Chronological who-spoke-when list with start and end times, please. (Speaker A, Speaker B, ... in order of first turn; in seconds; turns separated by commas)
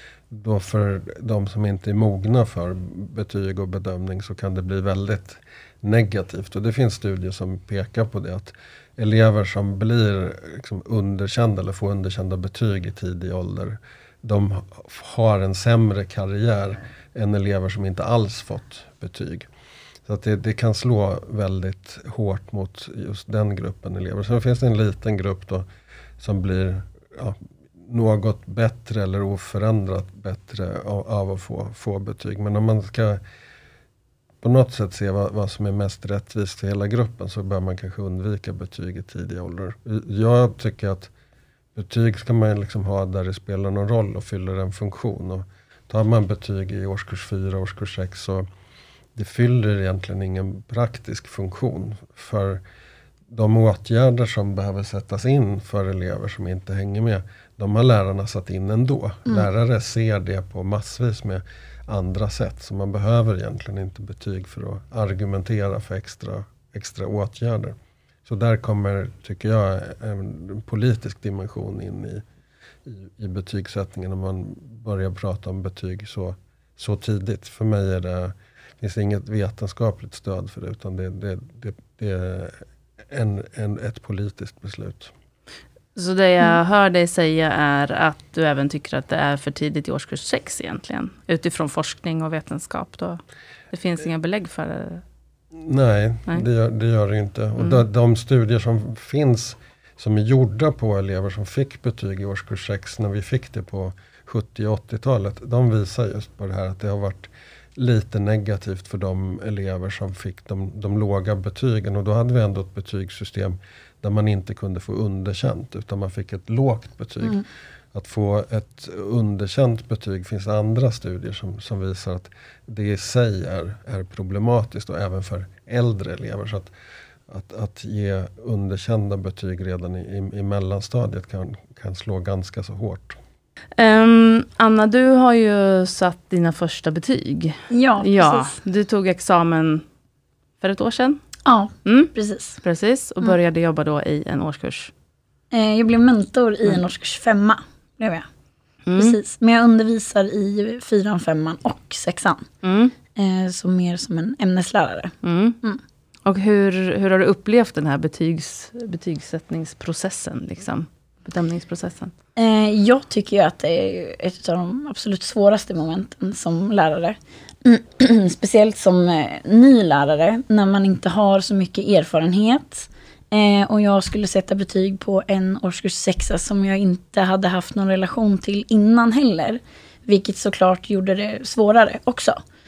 Speaker A: 0.3-19.5, Speaker A: 20.1-25.6, Speaker A: 26.2-33.2, Speaker A: 34.4-41.1, Speaker A: 41.8-48.5, Speaker A: 49.1-52.6, Speaker A: 53.3-72.2, Speaker A: 72.9-85.1, Speaker B: 86.0-95.0, Speaker A: 95.6-126.7, Speaker A: 127.3-133.2, Speaker B: 133.8-139.8, Speaker C: 137.7-138.6, Speaker B: 140.6-141.2, Speaker C: 141.4-142.6, Speaker B: 141.8-144.9, Speaker C: 145.5-148.3, Speaker B: 148.9-149.2, Speaker C: 149.0-152.5, Speaker B: 152.6-152.9, Speaker C: 153.1-155.8, Speaker B: 155.2-155.6, Speaker B: 156.2-162.1, Speaker C: 162.4-182.4